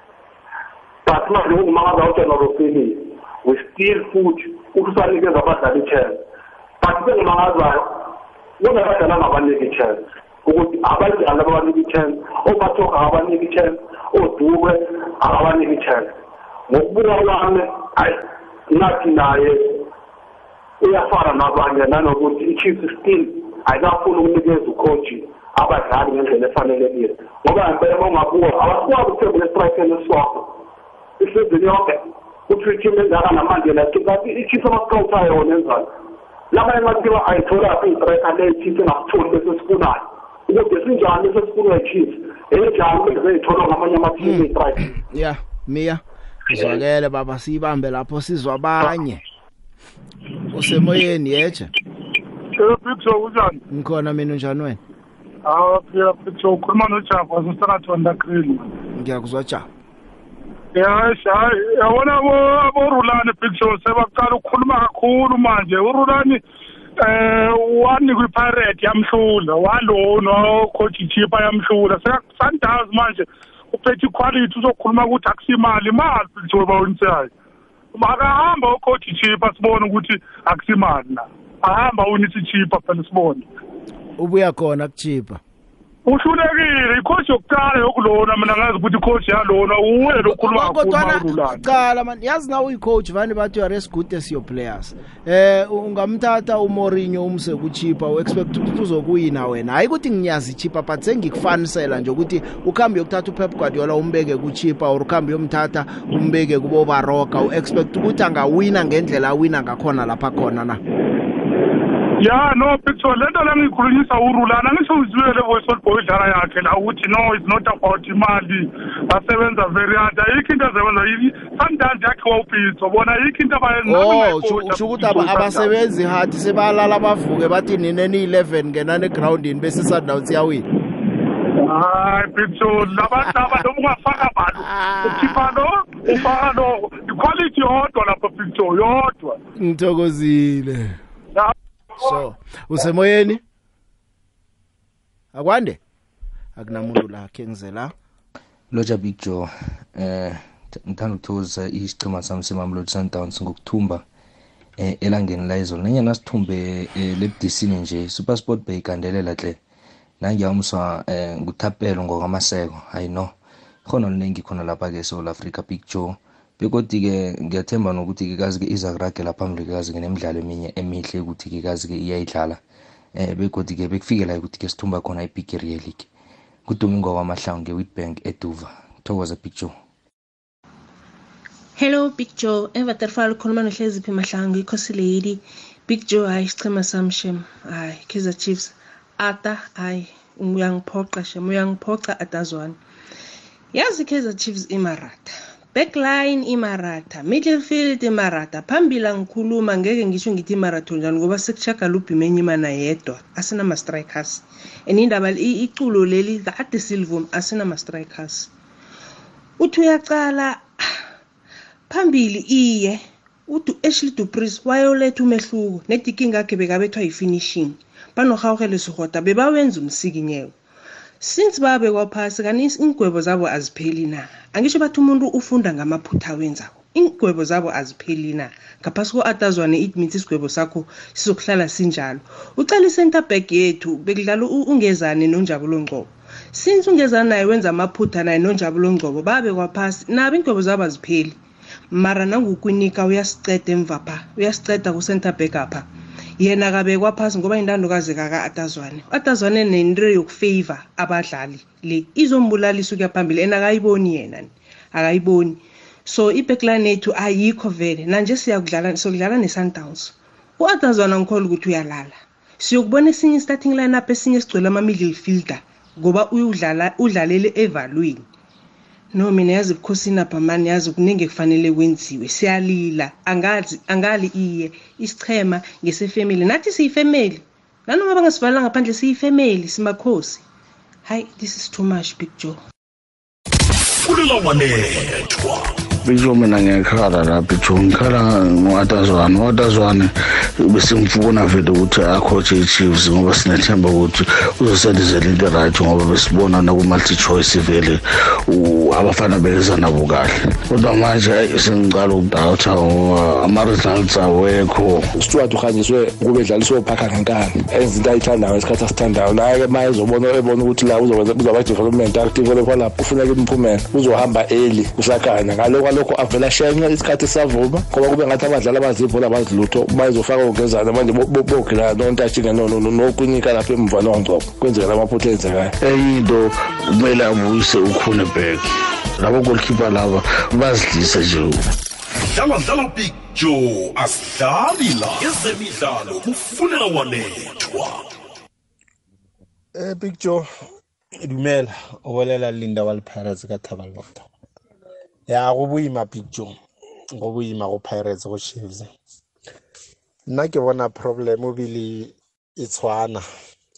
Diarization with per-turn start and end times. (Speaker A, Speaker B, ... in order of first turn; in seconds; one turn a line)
Speaker A: 1.1-6.2
Speaker A: 6.8-16.1
Speaker A: 16.7-19.9
Speaker A: 20.8-30.6
Speaker A: 31.2-35.9
Speaker A: 36.5-44.8
Speaker B: 44.2-49.2
Speaker B: 50.5-51.7
Speaker C: 52.5-53.6
Speaker B: 53.7-54.8
Speaker C: 55.5-58.7
Speaker B: 59.0-59.7
Speaker C: 60.7-66.4
Speaker C: 67.0-77.3
Speaker C: 77.9-83.5
Speaker B: 84.2-85.4
Speaker C: 86.0-91.8
Speaker B: 90.2-110.8
Speaker C: 112.2-125.7
Speaker B: 123.9-130.6
Speaker C: 131.6-139.4
Speaker B: 134.6-135.5
Speaker B: 139.6-141.0
Speaker B: 142.0-143.4
Speaker B: 145.3-145.8
Speaker B: 146.6-147.9
Speaker D: 148.7-154.0
Speaker D: 154.8-159.6
Speaker D: 160.2-163.3
Speaker D: 163.9-172.6
Speaker D: 173.2-176.1
Speaker D: 176.7-179.7
Speaker E: 181.8-192.8
Speaker E: 193.7-208.5
Speaker E: 209.6-211.0
Speaker E: 211.9-220.5
Speaker E: 221.2-241.4
Speaker E: 241.9-245.9
Speaker E: 246.4-268.2
Speaker E: 269.1-280.4
Speaker E: 281.1-282.6
Speaker F: 284.0-285.9
Speaker G: 286.0-305.1
Speaker H: 305.2-325.7
Speaker G: 325.8-331.6
Speaker F: 332.3-338.1
Speaker I: 339.7-340.5
Speaker I: 341.2-344.2
Speaker I: 345.3-346.5
Speaker I: 347.1-348.9
Speaker I: 350.3-353.2